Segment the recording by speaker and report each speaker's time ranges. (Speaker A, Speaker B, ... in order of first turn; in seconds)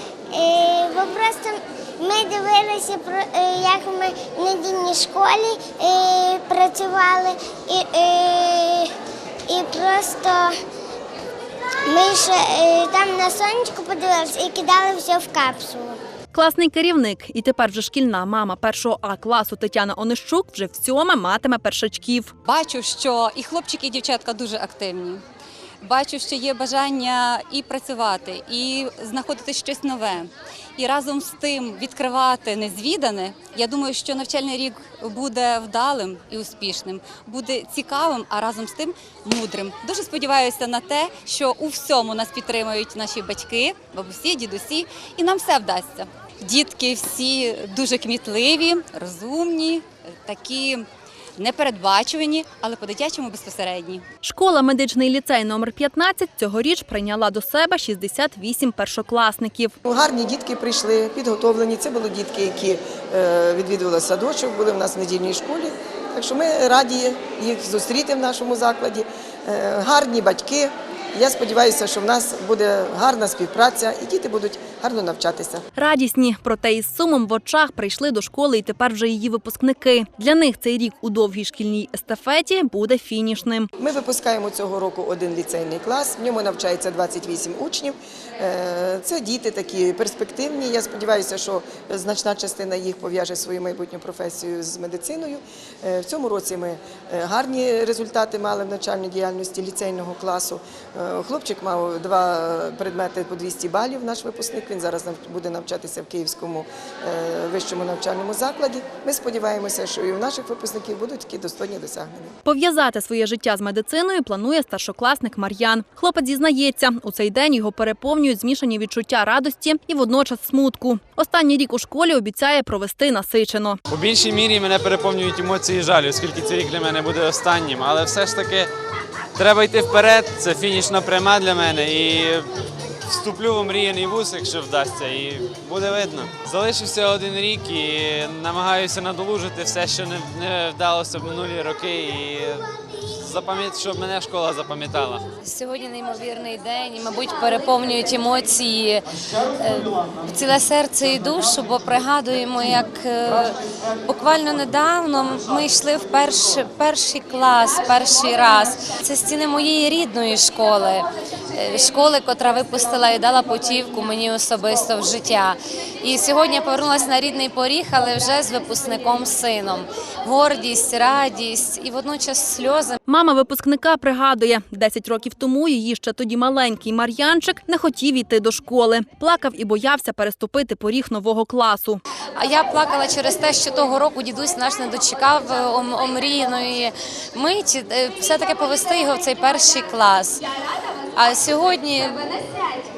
Speaker A: 0.3-8.9, 9.5-10.6, 11.8-16.0
Speaker B: 16.3-22.3, 54.2-59.7, 75.8-83.7, 112.5-123.8, 173.1-182.0
Speaker C: 22.4-25.2, 25.8-54.0
Speaker D: 59.8-75.6, 83.8-112.3
Speaker E: 123.9-128.7, 129.3-132.5, 133.1-145.2
Speaker F: 145.4-173.0, 182.3-190.4, 191.1-192.4